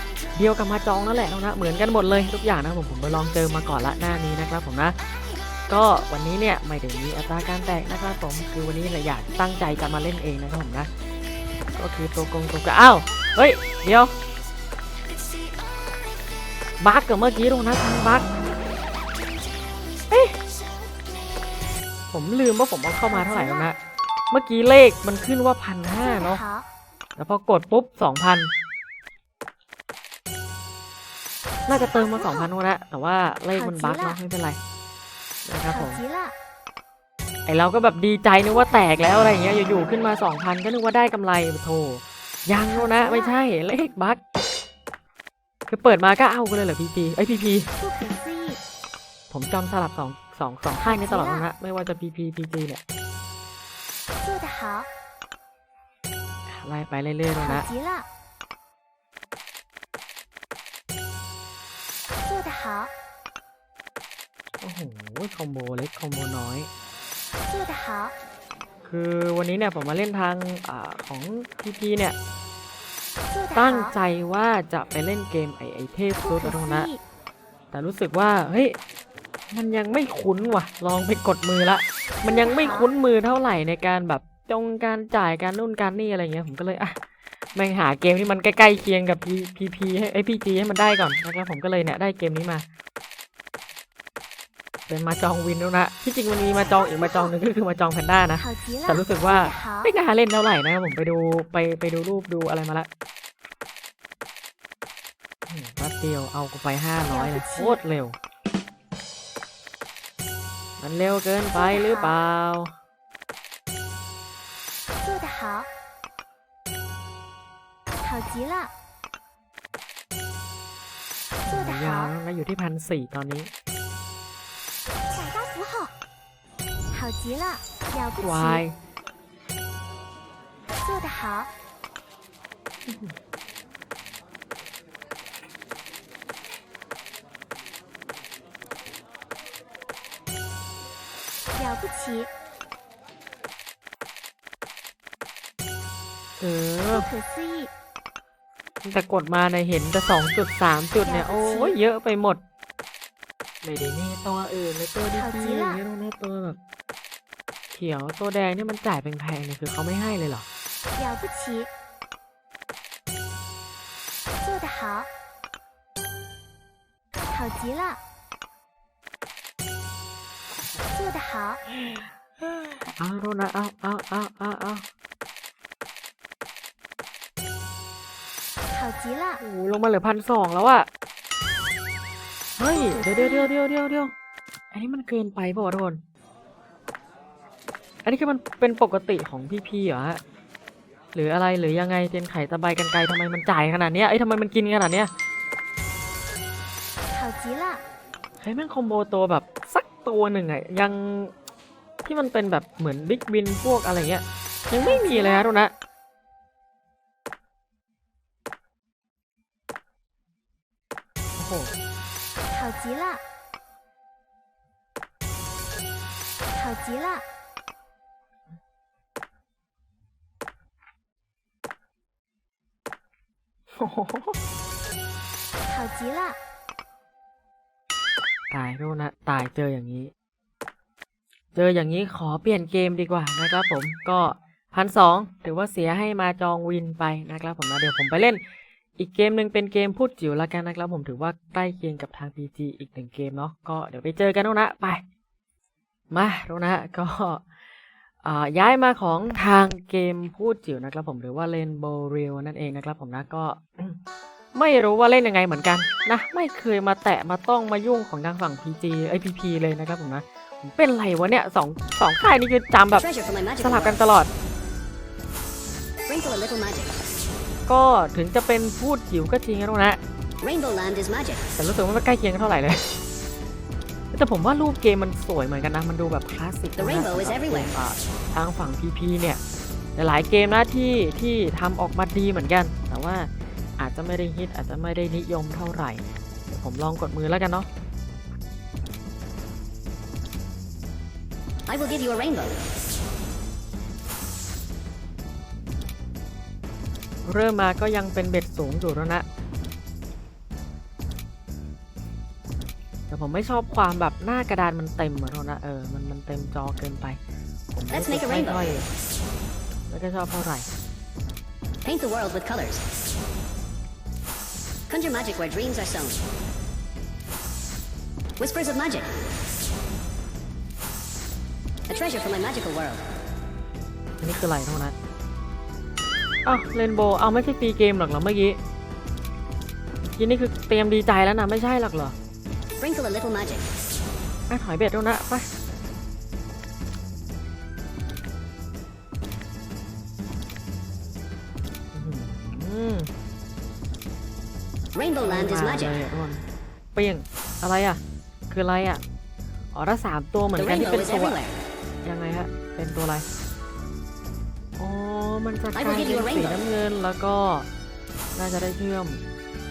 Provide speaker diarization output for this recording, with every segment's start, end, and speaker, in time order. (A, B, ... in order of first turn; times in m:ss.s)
0:00.4-0:05.0 A
0:05.7-0:10.9 A
0:11.8-0:14.1 A
0:16.8-0:18.3 A
0:22.1-0:23.8 A
0:23.1-0:23.7 B
0:24.3-0:26.4 A
0:26.0-0:26.7 B
0:27.2-0:28.5 A
0:31.7-0:34.6 A
0:31.7-0:32.5 B
0:33.5-0:34.2 B
0:35.4-0:36.0 A
0:35.7-0:36.3 B
0:37.5-0:44.2 A
0:42.7-0:43.4 B
0:45.7-0:47.7 A
0:47.8-0:48.6 B
0:49.3-0:52.8 A
0:50.8-0:51.5 B
0:54.2-0:54.9 B
0:56.5-0:57.7 A
0:57.4-0:58.1 B
1:02.3-1:02.9 B
1:04.6-1:06.7 A
1:07.5-1:08.1 B
1:08.8-1:12.2 A
1:13.3-1:13.9 B
1:13.6-1:16.9 A
1:16.2-1:17.0 B
1:17.7-1:18.8 A
1:19.5-1:27.0 A
1:22.3-1:22.9 B
1:27.6-1:32.6 A
1:34.9-1:42.9 A
1:36.7-1:37.3 B
1:38.4-1:39.9 B
1:45.5-1:48.2 A
1:47.1-1:47.8 B
1:50.8-1:52.7 A
1:51.6-1:52.1 B
1:55.0-1:55.7 B
1:58.0-1:58.7 B
2:01.5-2:03.5 A
2:01.5-2:02.1 B
2:05.1-2:06.0 B
2:06.9-2:08.6 B
2:08.2-2:08.8 A
2:10.8-2:11.5 B
2:12.9-2:13.1 A
2:21.6-2:22.3 B
2:26.4-2:27.1 A
2:26.9-2:27.7 B
2:28.8-2:32.4 A
2:31.0-2:31.8 B
2:33.6-2:36.6 A
2:35.2-2:35.8 B
2:37.7-2:40.5 A
2:41.0-2:41.7 B
2:44.4-2:45.1 B
2:47.3-2:48.0 B
2:50.6-2:51.2 A
2:51.0-2:51.6 B
2:51.7-2:54.8 A
2:58.7-2:59.4 B
2:59.4-3:00.9 A
3:02.6-3:04.1 A
3:02.7-3:03.5 B
3:04.7-3:06.0 A
3:08.0-3:10.2 A
3:11.1-3:15.1 A
3:17.1-3:17.8 B
3:18.4-3:21.3 A
3:22.0-3:25.7 A
3:24.8-3:25.5 B
3:31.4-3:31.7 A
3:32.5-3:33.2 B
3:36.5-3:37.2 B
3:43.8-3:44.4 A
3:45.7-3:46.4 B
3:48.5-3:50.1 A
3:51.6-3:58.4 A
3:59.0-4:05.0 A
4:06.1-4:07.4 A
4:08.2-4:14.0 A
4:14.5-4:23.1 A
4:23.0-4:24.0 C
4:23.6-4:24.3 A
4:26.1-4:26.9 C
4:27.7-4:30.0 A
4:30.4-4:31.4 C
4:31.6-4:32.8 A
4:34.1-4:39.4 A
4:36.8-4:37.7 C
4:40.0-4:47.7 A
4:51.7-4:52.6 C
4:57.2-4:59.3 A
5:03.1-5:07.2 A
5:07.7-5:08.9 A
5:07.9-5:08.6 C
5:09.9-5:10.7 A
5:11.8-5:12.8 C
5:14.9-5:16.2 C
5:18.4-5:19.1 C
5:21.9-5:23.0 C
5:24.2-5:24.9 A
5:26.4-5:28.6 A
5:30.1-5:32.2 A
5:32.8-5:33.7 C
5:34.5-5:35.5 A
5:41.9-5:43.1 A
5:45.0-5:45.9 C
5:45.2-5:46.4 A
5:47.0-5:49.0 A
5:49.7-5:51.4 A
5:50.7-5:51.6 C
5:52.0-5:53.3 A
5:54.8-5:57.7 A
5:55.8-5:56.5 C
5:58.4-5:59.2 A